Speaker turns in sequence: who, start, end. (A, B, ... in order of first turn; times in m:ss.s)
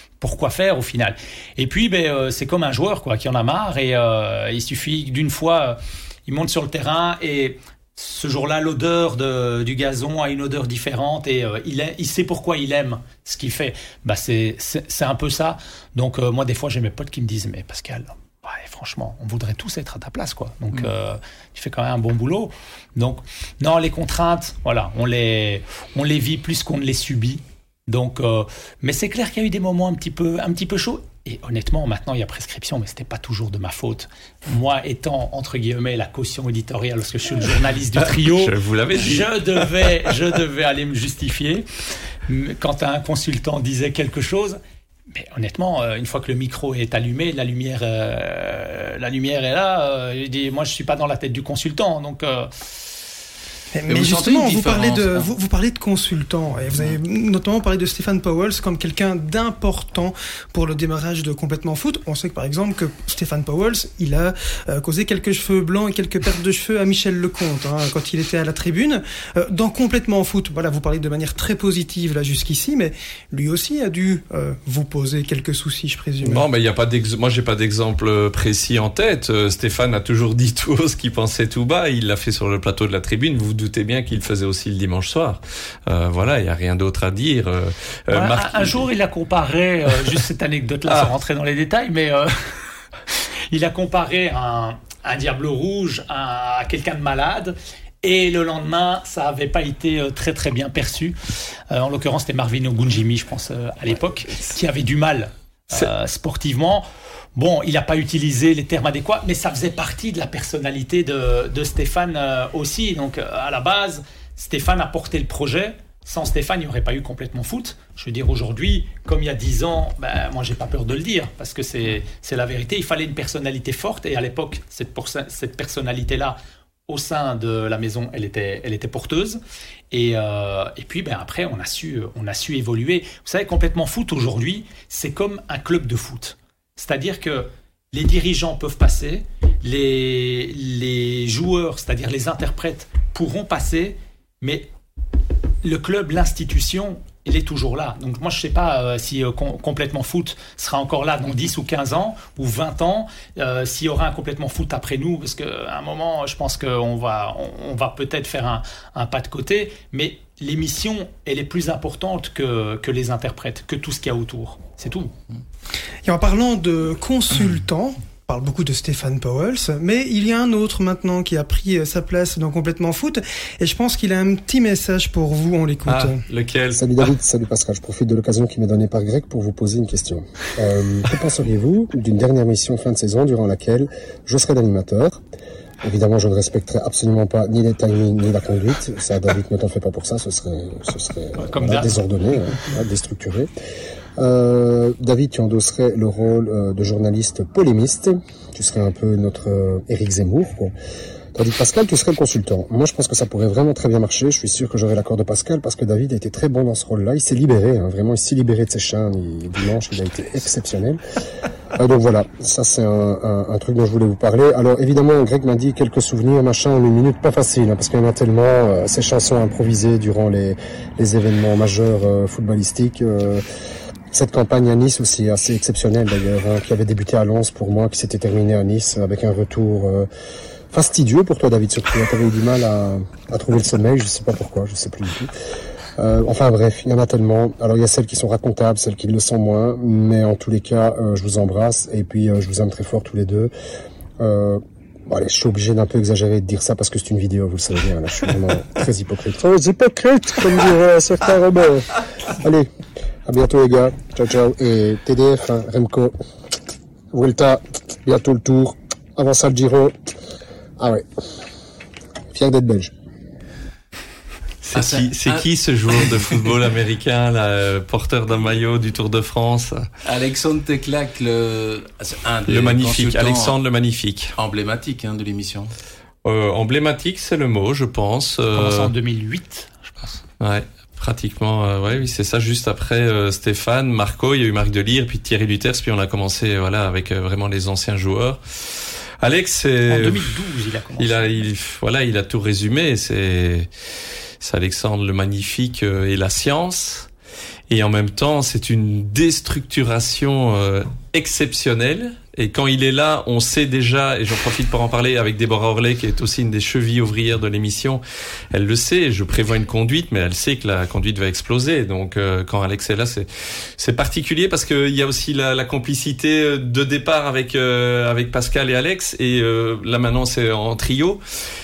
0:00.2-0:41.6 A
0:38.0-0:39.6 B
0:42.3-0:44.6 A
0:45.1-0:52.5 A
0:53.7-1:16.4 C
0:53.9-0:55.3 D
1:16.2-1:28.8 B
1:28.1-1:32.5 A
1:33.5-1:41.2 A
1:41.7-2:06.4 A
2:06.9-2:09.4 A
2:09.9-2:24.7 A
2:25.6-2:45.1 A
2:46.0-2:56.2 C
2:55.8-2:57.1 B
2:56.8-3:05.2 E
3:05.8-3:13.5 E
3:11.4-3:12.1 A
3:14.2-3:20.7 E
3:21.3-3:31.0 E
3:31.8-3:43.4 E
3:44.1-3:50.1 E
3:50.7-3:55.3 E
3:56.0-4:03.5 E
4:04.2-4:12.7 E
4:13.2-4:16.1 E
4:17.1-4:20.1 E
4:20.8-4:21.0 E
4:22.3-4:22.9 E
4:24.6-4:29.9 B
4:24.7-4:26.5 D
4:30.0-4:33.5 D
4:32.5-4:34.3 B
4:34.4-4:35.7 D
4:36.2-4:38.9 B
4:38.5-4:40.2 A
4:40.4-4:48.4 B
4:49.2-4:50.3 B
4:49.9-4:51.3 A
4:51.0-4:53.7 B
4:54.4-4:57.1 B
4:57.7-5:21.2 B